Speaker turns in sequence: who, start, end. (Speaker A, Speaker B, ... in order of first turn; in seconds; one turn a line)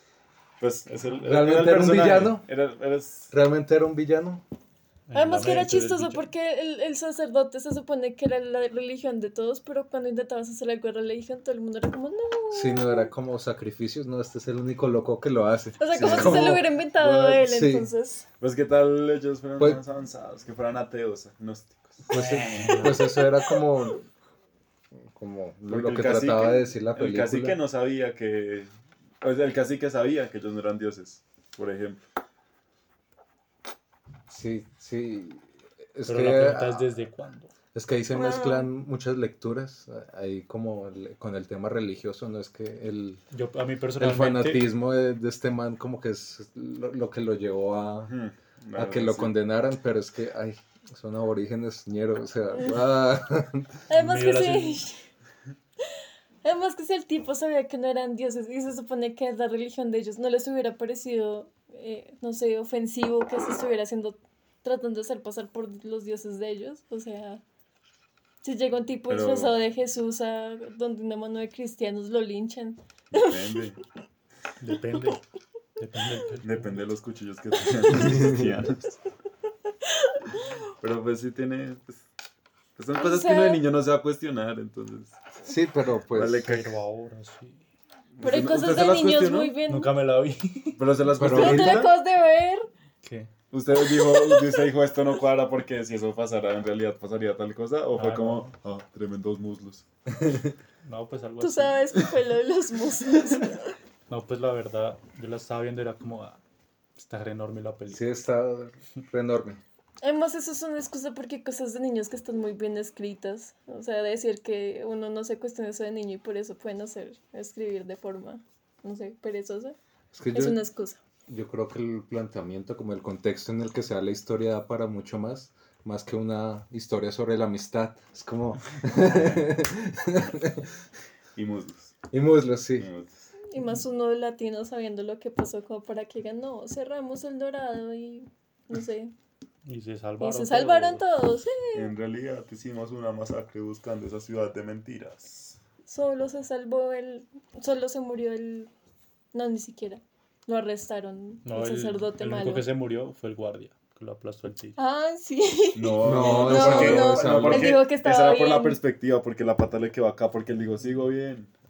Speaker A: 0.6-3.3
Speaker B: 1.2-2.5
Speaker B: 3.3-4.4
Speaker C: 5.1-6.3
Speaker D: 5.1-13.1
Speaker B: 12.5-17.9
Speaker D: 15.8-18.2
Speaker A: 15.9-16.6
Speaker A: 18.4-22.9
Speaker B: 22.1-24.1
Speaker C: 22.1-23.1
Speaker D: 22.9-23.6
Speaker B: 25.1-27.6
Speaker A: 25.7-28.7
Speaker A: 29.2-32.0
Speaker B: 34.3-36.9
Speaker C: 36.1-37.5
Speaker B: 37.7-43.2
Speaker D: 38.1-38.7
Speaker C: 43.3-44.6
Speaker B: 44.0-48.1
Speaker A: 48.0-49.3
Speaker B: 48.8-53.7
Speaker D: 52.5-52.8
Speaker D: 53.9-55.0
Speaker C: 53.9-54.8
Speaker D: 56.4-67.4
Speaker D: 68.4-73.6
Speaker A: 69.1-69.6
Speaker A: 73.1-73.8
Speaker C: 74.6-75.2
Speaker C: 75.8-76.8
Speaker A: 76.4-79.0
Speaker B: 77.9-78.5
Speaker A: 80.8-82.0
Speaker A: 82.8-85.2
Speaker D: 82.9-83.6
Speaker B: 85.4-86.6
Speaker A: 86.1-86.7
Speaker C: 86.4-87.6
Speaker A: 88.2-89.5
Speaker D: 88.2-89.9
Speaker C: 89.7-90.8
Speaker A: 90.7-91.9
Speaker B: 91.2-91.9
Speaker D: 91.2-92.7
Speaker C: 93.0-93.3
Speaker A: 93.5-99.8
Speaker D: 93.8-94.5
Speaker C: 98.0-98.5
Speaker B: 100.1-100.5
Speaker C: 100.8-101.8
Speaker D: 101.4-103.7
Speaker C: 104.1-106.4
Speaker C: 107.0-108.1
Speaker B: 107.9-109.6
Speaker D: 110.0-119.8
Speaker B: 120.1-120.6
Speaker D: 120.3-121.0
Speaker B: 121.3-130.7
Speaker A: 128.9-129.4
Speaker A: 131.3-131.9
Speaker B: 132.1-132.9
Speaker A: 132.8-133.3
Speaker D: 133.5-139.1
Speaker C: 139.7-141.0
Speaker D: 140.2-141.9
Speaker A: 141.7-145.6
Speaker D: 145.8-148.7
Speaker D: 149.3-152.7
Speaker C: 151.4-154.8
Speaker D: 154.8-158.8
Speaker A: 155.7-161.5
Speaker B: 156.0-157.8